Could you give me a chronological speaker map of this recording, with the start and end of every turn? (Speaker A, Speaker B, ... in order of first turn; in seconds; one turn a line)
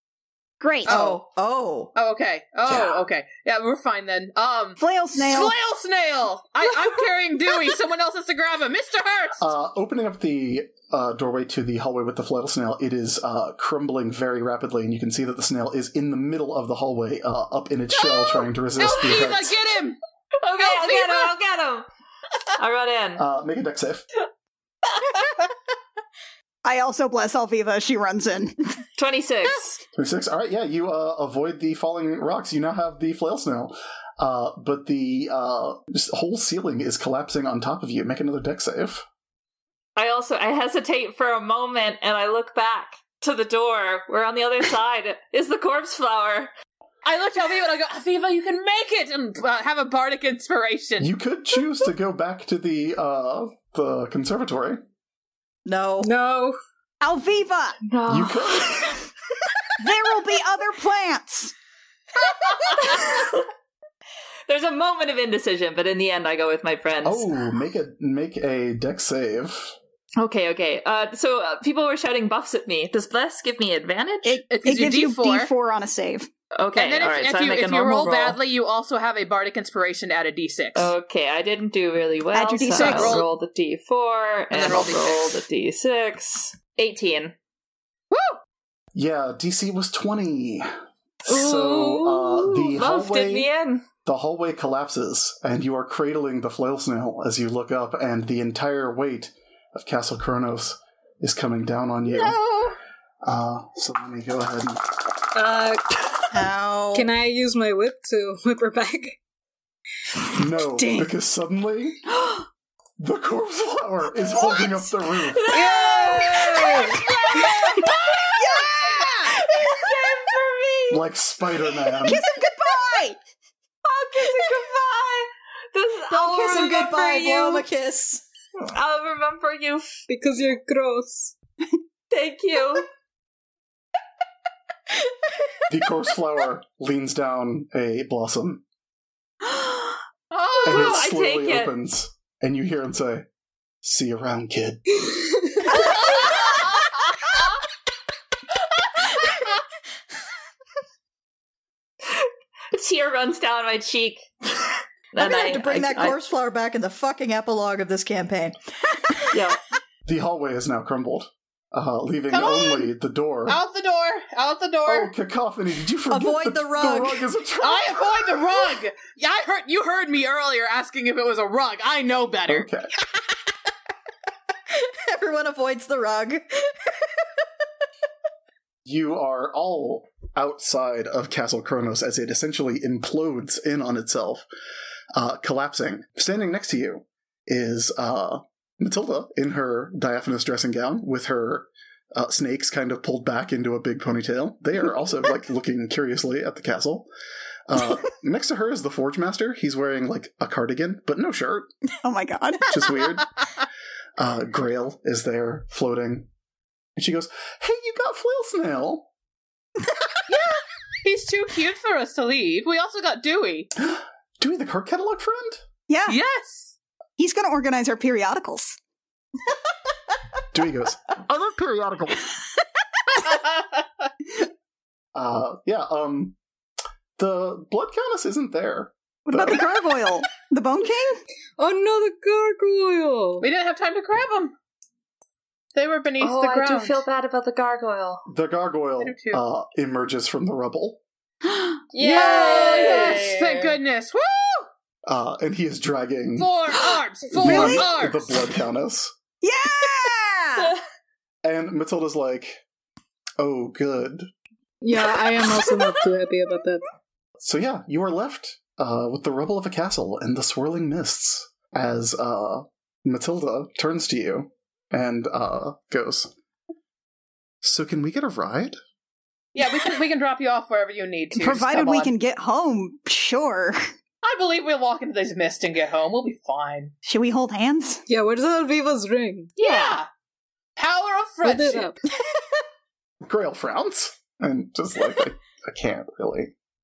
Speaker A: 0.6-1.1
Speaker B: 0.8-1.2
Speaker C: 0.9-1.9
Speaker B: 1.9-9.5
Speaker D: 2.7-3.0
Speaker A: 4.8-5.5
Speaker D: 9.4-19.6
Speaker B: 18.8-20.0
Speaker E: 20.4-21.9
Speaker B: 20.6-21.4
Speaker E: 22.6-23.2
Speaker D: 23.2-24.1
Speaker A: 26.6-28.6
Speaker E: 29.0-29.8
Speaker D: 30.0-39.0
Speaker E: 40.0-46.5
Speaker B: 47.0-51.1
Speaker D: 51.0-54.8
Speaker C: 55.6-56.1
Speaker F: 56.0-56.6
Speaker A: 57.0-57.8
Speaker E: 57.9-59.0
Speaker D: 58.1-58.8
Speaker A: 59.8-61.5
Speaker E: 62.5-63.5
Speaker E: 64.5-67.3
Speaker D: 67.0-69.8
Speaker E: 70.2-74.4
Speaker A: 74.2-76.3
Speaker B: 74.5-75.5
Speaker E: 76.5-78.4
Speaker B: 76.8-80.9
Speaker E: 80.8-87.3
Speaker A: 82.3-83.2
Speaker B: 82.7-83.3
Speaker B: 84.5-85.4
Speaker B: 88.1-88.4
Speaker D: 88.9-90.7
Speaker D: 91.2-93.5
Speaker E: 91.3-93.8
Speaker D: 94.0-102.4
Speaker B: 102.1-102.8
Speaker D: 103.2-104.8
Speaker F: 105.3-106.0
Speaker C: 106.3-107.1
Speaker F: 106.9-109.2
Speaker D: 110.3-112.0
Speaker F: 110.7-111.1
Speaker D: 113.0-115.4
Speaker E: 115.2-121.0
Speaker B: 115.7-118.2
Speaker A: 118.4-120.3
Speaker D: 120.9-122.2
Speaker A: 122.0-123.2
Speaker E: 123.8-127.7
Speaker C: 126.1-128.2
Speaker E: 128.6-130.0
Speaker F: 130.1-131.3
Speaker E: 132.1-132.9
Speaker D: 135.7-138.6
Speaker B: 140.3-141.0
Speaker E: 140.6-141.7
Speaker D: 140.6-143.3
Speaker D: 143.8-145.1
Speaker E: 152.1-156.2
Speaker C: 155.2-158.6
Speaker C: 159.1-159.4
Speaker E: 159.3-159.6
Speaker D: 160.1-163.6
Speaker B: 162.3-162.9
Speaker B: 163.5-165.1
Speaker D: 164.9-168.5
Speaker C: 166.1-167.2
Speaker B: 167.6-172.7
Speaker D: 172.5-172.9
Speaker C: 174.8-176.7
Speaker D: 178.8-184.5
Speaker D: 185.1-197.1
Speaker D: 197.7-201.7
Speaker A: 202.0-203.0
Speaker D: 202.7-203.3
Speaker D: 204.2-206.3
Speaker D: 207.0-209.1
Speaker B: 210.3-213.7
Speaker D: 213.8-215.7
Speaker A: 215.9-216.2
Speaker B: 216.1-216.8
Speaker A: 217.2-218.8
Speaker D: 220.5-222.3
Speaker B: 223.3-224.0
Speaker D: 225.1-226.4
Speaker D: 227.2-229.7
Speaker A: 229.3-231.2
Speaker F: 231.6-233.5
Speaker B: 233.4-234.5
Speaker B: 235.8-237.0
Speaker E: 236.2-238.2
Speaker D: 238.3-241.0
Speaker B: 239.0-239.4
Speaker E: 241.9-243.8
Speaker B: 242.0-244.7
Speaker D: 245.1-246.5
Speaker B: 246.4-248.3
Speaker D: 247.3-249.1
Speaker A: 247.4-247.9
Speaker A: 249.4-250.8
Speaker D: 251.4-252.6
Speaker D: 253.4-254.3
Speaker F: 254.8-256.8
Speaker D: 257.4-266.3
Speaker D: 267.6-268.8
Speaker B: 269.6-272.1
Speaker A: 271.4-273.8
Speaker B: 274.2-276.9
Speaker A: 277.0-278.0
Speaker F: 278.1-279.5
Speaker B: 279.6-280.1
Speaker E: 279.6-280.0
Speaker B: 280.8-281.9
Speaker F: 281.4-282.0
Speaker D: 283.2-286.5